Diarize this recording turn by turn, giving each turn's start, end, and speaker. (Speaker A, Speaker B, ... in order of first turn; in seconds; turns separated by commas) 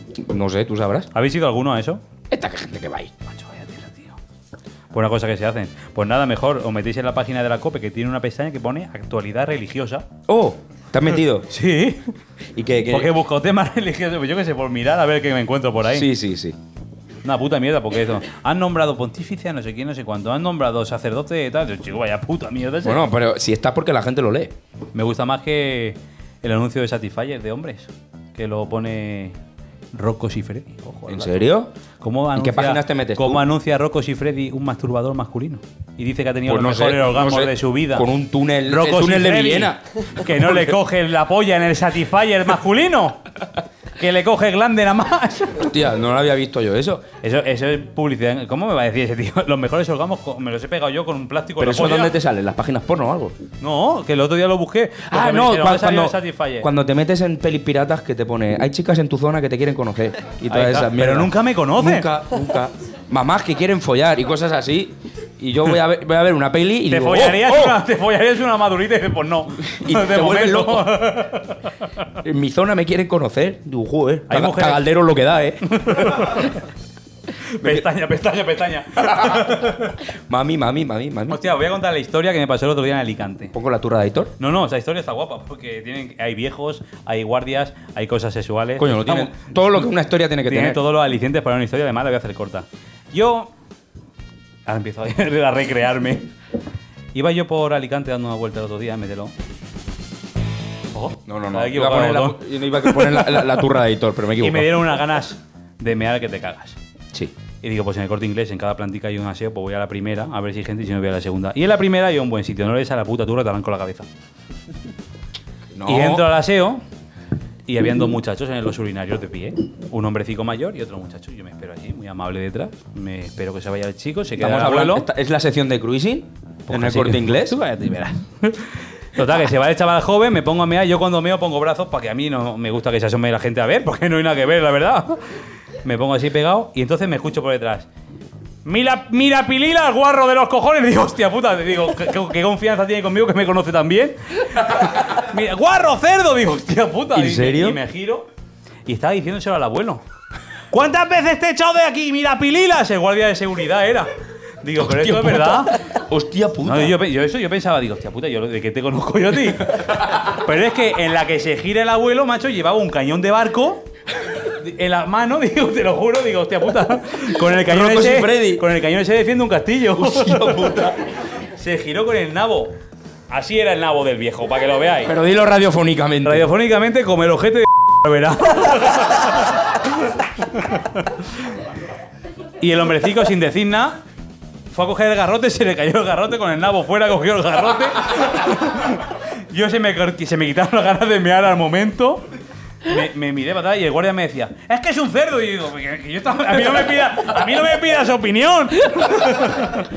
Speaker A: 0.1-1.1, Speaker B: 1.1-2.0, Speaker A: 2.3-3.1, Speaker B: 3.3-4.2, Speaker B: 4.9-10.1, Speaker A: 10.3-11.5, Speaker B: 11.5-12.1, Speaker A: 12.5-13.1, Speaker B: 12.9-16.1, Speaker A: 15.9-16.6, Speaker B: 17.2-23.0, Speaker A: 22.8-24.5, Speaker B: 24.9-29.4, Speaker B: 29.9-31.4, Speaker A: 31.1-31.7, Speaker B: 32.0-38.1, Speaker A: 32.3-33.4, Speaker A: 36.5-40.7, Speaker B: 38.7-43.2, Speaker B: 44.0-45.7, Speaker A: 45.6-47.0, Speaker B: 47.2-52.2, Speaker A: 51.6-53.4, Speaker B: 53.6-56.7, Speaker A: 55.1-67.8, Speaker B: 60.5-62.1, Speaker B: 66.9-71.6, Speaker A: 69.6-70.9, Speaker A: 72.2-76.4, Speaker B: 74.3-74.9, Speaker B: 75.7-76.5, Speaker B: 77.6-79.9, Speaker A: 77.6-77.9, Speaker A: 79.1-79.5, Speaker A: 80.3-81.4, Speaker B: 81.3-83.5, Speaker A: 83.5-84.3, Speaker B: 84.4-89.5, Speaker A: 88.8-90.8, Speaker B: 90.4-93.5, Speaker B: 94.7-96.3, Speaker B: 97.1-99.3, Speaker B: 100.9-103.4, Speaker A: 101.2-104.8, Speaker B: 104.4-106.8, Speaker B: 107.6-114.1, Speaker A: 115.7-116.3, Speaker B: 115.8-116.8, Speaker B: 117.7-125.1, Speaker A: 124.4-127.6, Speaker B: 126.7-135.2, Speaker B: 135.8-137.9, Speaker B: 138.6-148.3, Speaker A: 147.1-147.8, Speaker B: 148.8-150.0, Speaker B: 150.7-154.1, Speaker B: 154.6-155.8, Speaker A: 154.8-157.0, Speaker B: 156.6-163.8, Speaker B: 164.4-170.8, Speaker A: 167.6-168.6, Speaker A: 169.9-171.0, Speaker B: 171.6-172.7, Speaker B: 173.3-175.1, Speaker A: 175.0-176.5, Speaker B: 176.2-179.3, Speaker B: 182.6-184.0, Speaker B: 184.7-192.2, Speaker B: 192.8-199.8